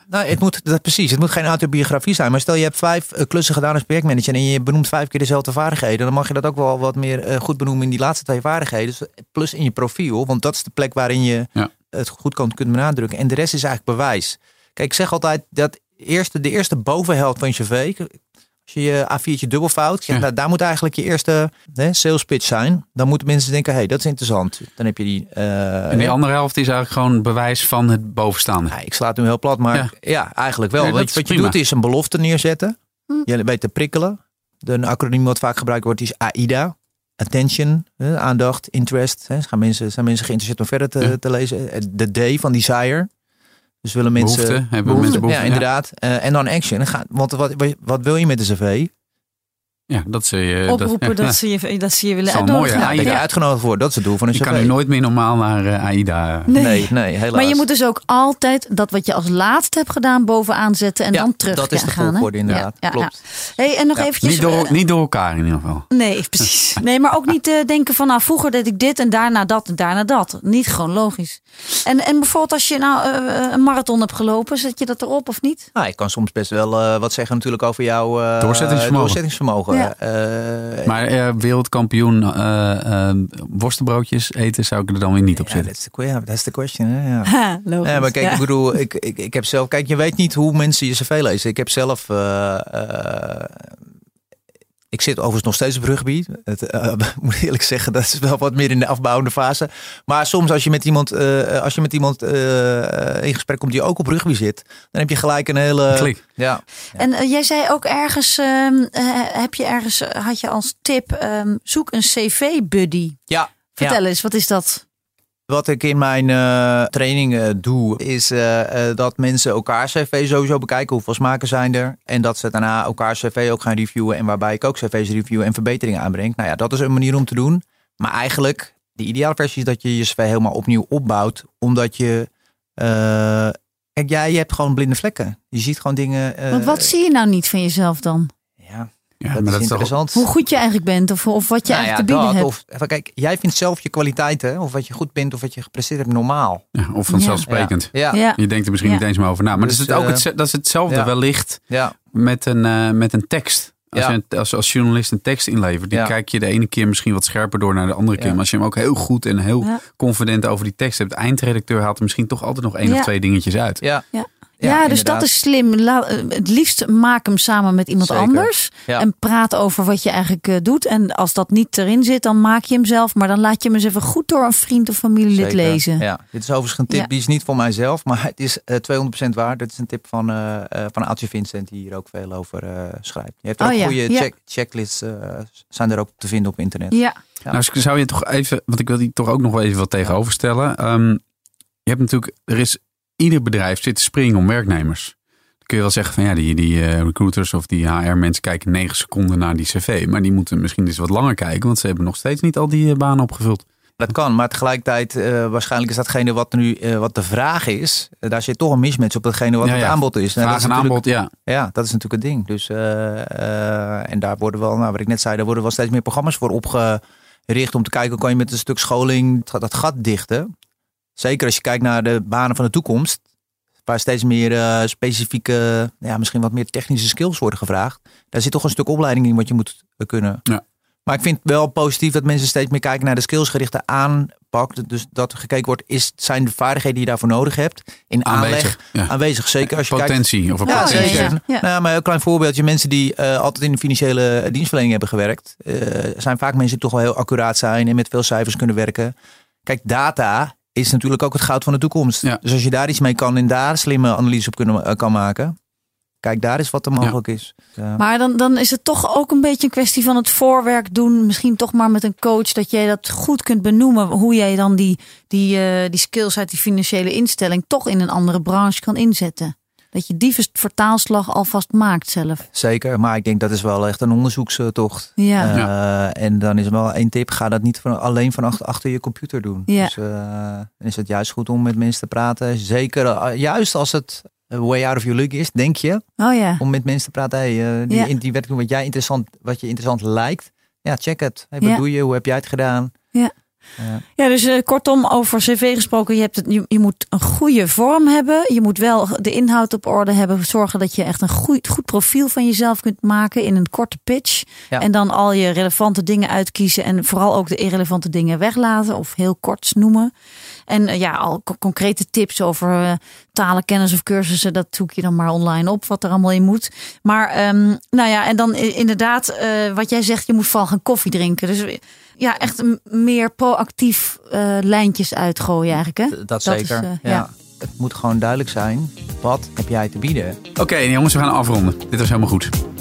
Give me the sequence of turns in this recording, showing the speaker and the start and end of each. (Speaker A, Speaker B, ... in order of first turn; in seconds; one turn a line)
Speaker A: 0.1-26.2
Speaker B: 25.9-28.7
Speaker A: 28.7-43.1
Speaker B: 30.8-31.6
Speaker A: 43.8-48.9
Speaker B: 44.2-45.6
Speaker C: 44.9-45.2
Speaker B: 49.9-51.4
Speaker C: 50.7-53.2
Speaker B: 52.3-53.2
Speaker A: 52.7-54.7
Speaker B: 54.3-56.5
Speaker C: 56.5-64.7
Speaker A: 56.5-57.6
Speaker A: 61.1-63.1
Speaker B: 64.2-66.5
Speaker C: 65.9-75.7
Speaker A: 75.7-81.0
Speaker B: 78.4-79.2
Speaker B: 80.8-85.7
Speaker A: 85.4-93.8
Speaker C: 87.2-88.4
Speaker A: 94.9-107.0
Speaker B: 105.9-106.2
Speaker C: 106.9-113.2
Speaker A: 113.3-114.0
Speaker C: 113.8-114.8
Speaker A: 115.5-136.9
Speaker C: 136.5-138.3
Speaker A: 138.6-140.2
Speaker B: 139.2-139.9
Speaker C: 140.1-142.5
Speaker A: 141.7-146.6
Speaker B: 146.7-163.8
Speaker C: 147.1-147.4
Speaker A: 147.4-148.2
Speaker C: 148.1-149.0
Speaker A: 149.6-150.2
Speaker A: 151.7-151.9
Speaker C: 162.8-163.1
Speaker C: 164.1-176.0
Speaker A: 164.6-165.3
Speaker A: 168.0-169.1
Speaker A: 175.4-187.6
Speaker C: 183.6-184.3
Speaker C: 186.9-187.2
Speaker B: 187.5-191.2
Speaker B: 191.8-195.1
Speaker B: 195.7-203.6
Speaker A: 204.0-220.5
Speaker B: 209.6-211.3
Speaker A: 221.2-223.2
Speaker A: 223.8-230.4
Speaker A: 231.1-249.1
Speaker B: 238.2-239.1
Speaker B: 239.7-241.3
Speaker C: 240.7-241.6
Speaker A: 249.6-255.6
Speaker A: 256.2-258.0
Speaker C: 258.0-272.4
Speaker A: 272.5-286.1
Speaker C: 275.2-275.5
Speaker C: 279.7-279.9
Speaker C: 286.2-286.6
Speaker A: 286.6-292.9
Speaker C: 294.1-310.1
Speaker C: 310.7-327.3
Speaker A: 326.1-330.4
Speaker B: 330.6-332.5